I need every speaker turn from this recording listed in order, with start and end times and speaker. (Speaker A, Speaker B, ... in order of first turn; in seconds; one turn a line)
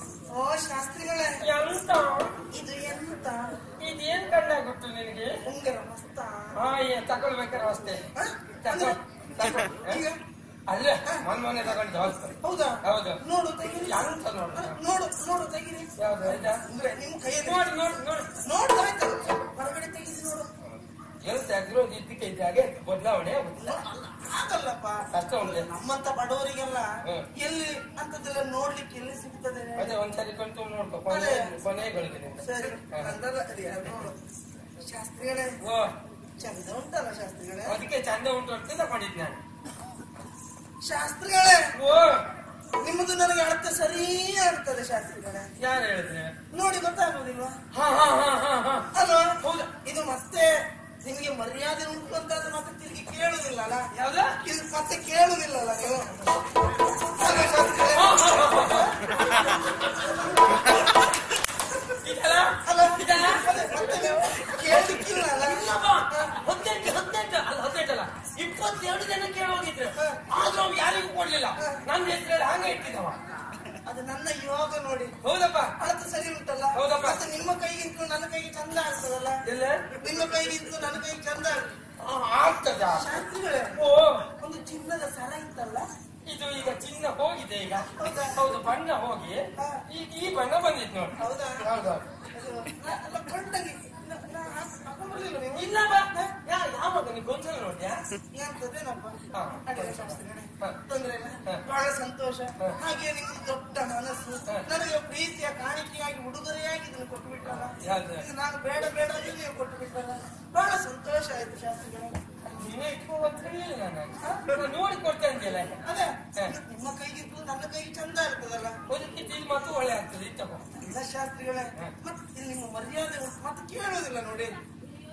Speaker A: 0.3-1.4
Speaker B: 1.4-2.4
Speaker A: 2.5-3.5
Speaker B: 3.8-5.3
Speaker A: 5.5-6.5
Speaker B: 6.5-8.0
Speaker A: 8.2-10.2
Speaker B: 8.6-10.0
Speaker B: 10.7-13.2
Speaker A: 12.4-17.7
Speaker B: 13.8-14.8
Speaker B: 16.0-16.6
Speaker B: 17.4-18.3
Speaker A: 18.4-20.5
Speaker B: 21.2-23.8
Speaker A: 23.6-29.9
Speaker B: 25.1-25.7
Speaker B: 29.8-33.1
Speaker A: 31.1-31.5
Speaker A: 32.4-34.1
Speaker A: 34.8-35.5
Speaker B: 35.6-35.9
Speaker A: 36.4-37.7
Speaker B: 37.7-39.4
Speaker A: 40.8-41.6
Speaker B: 41.7-42.2
Speaker A: 42.8-45.5
Speaker B: 45.6-46.3
Speaker A: 46.5-47.6
Speaker B: 47.7-48.9
Speaker A: 48.9-53.9
Speaker B: 49.4-49.7
Speaker B: 53.9-54.4
Speaker A: 54.4-56.5
Speaker A: 57.1-59.4
Speaker B: 57.9-58.9
Speaker B: 62.0-63.4
Speaker A: 62.6-65.7
Speaker B: 64.6-73.2
Speaker A: 73.8-75.1
Speaker B: 75.2-75.7
Speaker A: 75.8-79.4
Speaker B: 76.7-77.2
Speaker B: 79.5-79.8
Speaker A: 80.0-81.7
Speaker B: 82.0-83.1
Speaker A: 82.9-83.8
Speaker B: 83.7-84.2
Speaker A: 84.4-85.9
Speaker B: 86.2-92.1
Speaker A: 88.0-88.4
Speaker A: 91.2-91.6
Speaker A: 92.3-95.8
Speaker B: 95.5-98.0
Speaker A: 98.3-112.2
Speaker B: 99.3-100.8
Speaker B: 107.8-108.2
Speaker B: 112.5-115.8
Speaker A: 114.2-114.5
Speaker A: 115.8-118.8
Speaker B: 118.9-120.7
Speaker A: 120.8-124.6